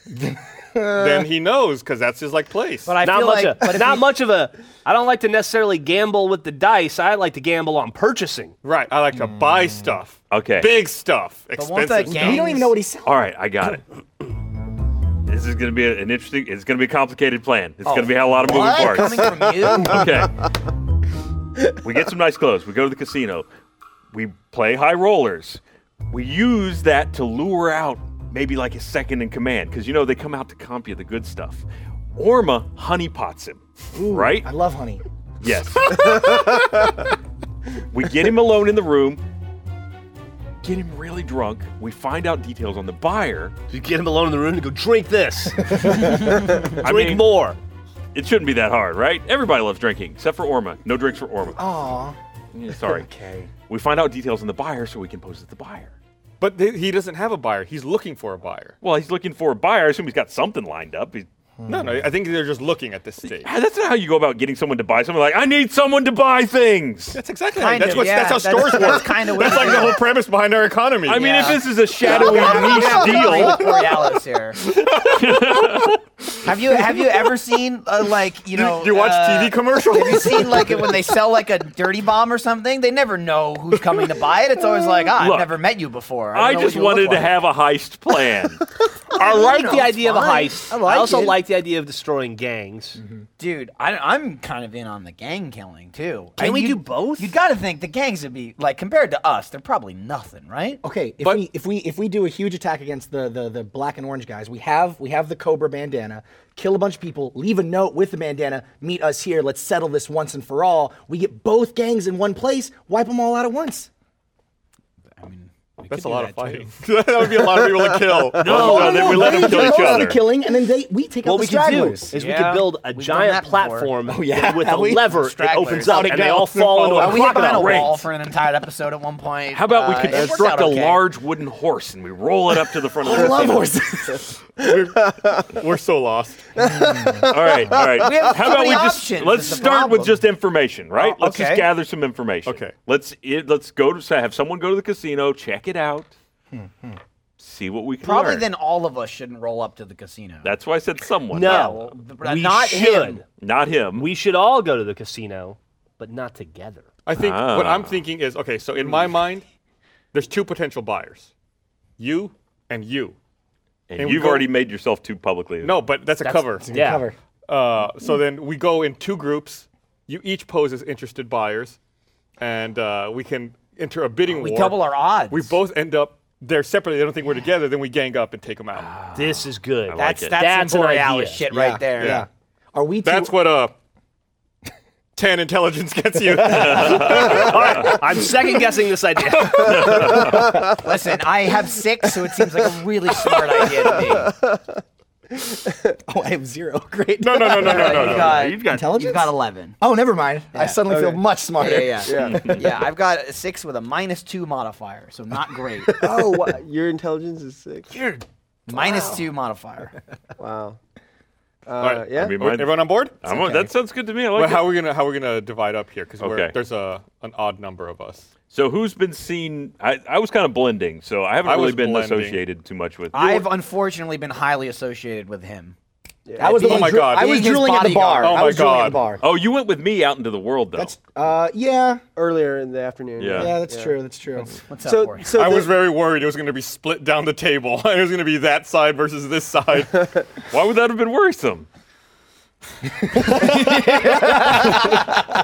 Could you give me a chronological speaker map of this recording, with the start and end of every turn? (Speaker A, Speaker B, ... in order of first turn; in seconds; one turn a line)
Speaker A: 0.8-1.3
Speaker B: 0.9-2.9
Speaker C: 2.9-4.0
Speaker D: 3.0-8.6
Speaker B: 8.6-12.6
Speaker E: 10.3-10.8
Speaker C: 11.6-12.8
Speaker A: 12.1-13.1
Speaker E: 13.0-13.8
Speaker E: 15.3-20.3
Speaker C: 17.8-20.1
Speaker E: 21.8-23.5
Speaker E: 24.1-31.6
Speaker E: 32.2-34.5
Speaker A: 33.9-35.0
Speaker E: 35.4-36.9
Speaker F: 36.0-36.7
Speaker E: 37.9-39.2
Speaker E: 40.6-43.5
Speaker D: 43.7-47.6
Speaker A: 45.7-46.3
Speaker E: 46.6-47.2
Speaker E: 48.1-51.6
Speaker A: 51.6-52.2
Speaker E: 52.5-55.9
Speaker A: 52.8-53.5
Speaker B: 56.4-58.8
Speaker E: 58.8-61.3
Speaker A: 61.6-62.0
Speaker B: 61.7-63.5
Speaker E: 63.3-67.2
Speaker B: 67.1-73.6
Speaker C: 67.5-70.0
Speaker E: 71.0-73.7
Speaker C: 71.1-74.6
Speaker B: 74.8-75.7
Speaker E: 75.0-76.0
Speaker C: 76.4-87.3
Speaker B: 78.5-81.0
Speaker E: 85.0-85.6
Speaker E: 86.3-88.6
Speaker D: 89.1-93.0
Speaker C: 89.1-91.4
Speaker A: 93.0-93.3
Speaker C: 93.4-100.8
Speaker D: 96.4-97.3
Speaker A: 100.8-113.9
Speaker C: 115.2-116.7
Speaker B: 115.9-119.9
Speaker F: 117.3-118.8
Speaker E: 118.4-120.2
Speaker A: 118.4-122.1
Speaker D: 121.2-128.0
Speaker C: 122.1-123.9
Speaker A: 124.1-126.7
Speaker C: 125.1-126.3
Speaker B: 126.4-127.5
Speaker C: 126.9-131.0
Speaker E: 127.3-128.1
Speaker E: 129.5-133.8
Speaker A: 133.0-134.4
Speaker F: 134.6-135.6
Speaker B: 134.6-136.5
Speaker F: 136.6-138.3
Speaker A: 136.6-137.2
Speaker E: 137.3-146.1
Speaker C: 137.9-140.2
Speaker C: 140.9-141.7
Speaker B: 142.4-142.8
Speaker A: 146.5-147.0
Speaker E: 147.4-148.5
Speaker C: 148.0-150.5
Speaker E: 150.4-151.8
Speaker D: 151.3-153.2
Speaker C: 151.3-153.2
Speaker E: 153.4-154.1
Speaker D: 153.9-156.9
Speaker B: 157.1-159.4
Speaker E: 157.1-158.0
Speaker B: 160.1-161.3
Speaker B: 162.0-163.2
Speaker E: 163.9-165.9
Speaker B: 164.0-164.5
Speaker B: 165.6-166.8
Speaker A: 166.6-167.2
Speaker D: 166.7-167.1
Speaker B: 167.5-171.8
Speaker B: 172.4-179.0
Speaker C: 174.3-175.6
Speaker E: 178.8-180.4
Speaker D: 179.2-181.4
Speaker C: 180.0-182.2
Speaker A: 181.5-183.3
Speaker B: 182.0-182.3
Speaker B: 183.0-183.8
Speaker B: 185.2-187.9
Speaker A: 186.3-186.9
Speaker E: 186.4-188.0
Speaker D: 186.9-190.3
Speaker E: 189.6-190.6
Speaker F: 189.6-190.8
Speaker C: 190.8-194.3
Speaker F: 193.3-194.8
Speaker F: 195.3-195.9
Speaker A: 196.1-202.4
Speaker B: 197.2-198.6
Speaker C: 197.6-199.8
Speaker E: 198.0-198.8
Speaker C: 200.5-201.0
Speaker F: 200.9-201.2
Speaker C: 201.6-206.0
Speaker F: 202.1-202.6
Speaker E: 202.2-202.7
Speaker A: 205.8-206.5
Speaker F: 205.9-207.9
Speaker C: 208.2-209.9
Speaker A: 208.7-209.2
Speaker F: 210.4-210.8
Speaker F: 211.7-212.4
Speaker B: 211.8-213.7
Speaker E: 212.1-214.8
Speaker B: 214.3-218.3
Speaker E: 216.2-216.6
Speaker E: 218.5-223.5
Speaker B: 221.4-222.4
Speaker C: 223.1-225.8
Speaker F: 226.3-226.7
Speaker A: 226.4-229.2
Speaker C: 226.4-228.6
Speaker B: 226.6-227.5
Speaker B: 228.2-229.1
Speaker E: 229.2-231.0
Speaker A: 230.8-232.0
Speaker F: 232.2-234.0
Speaker E: 233.2-233.6
Speaker A: 233.3-234.6
Speaker C: 234.7-235.3
Speaker F: 234.8-235.7
Speaker B: 235.3-240.1
Speaker E: 240.5-241.7
Speaker A: 243.1-244.8
Speaker D: 244.6-244.9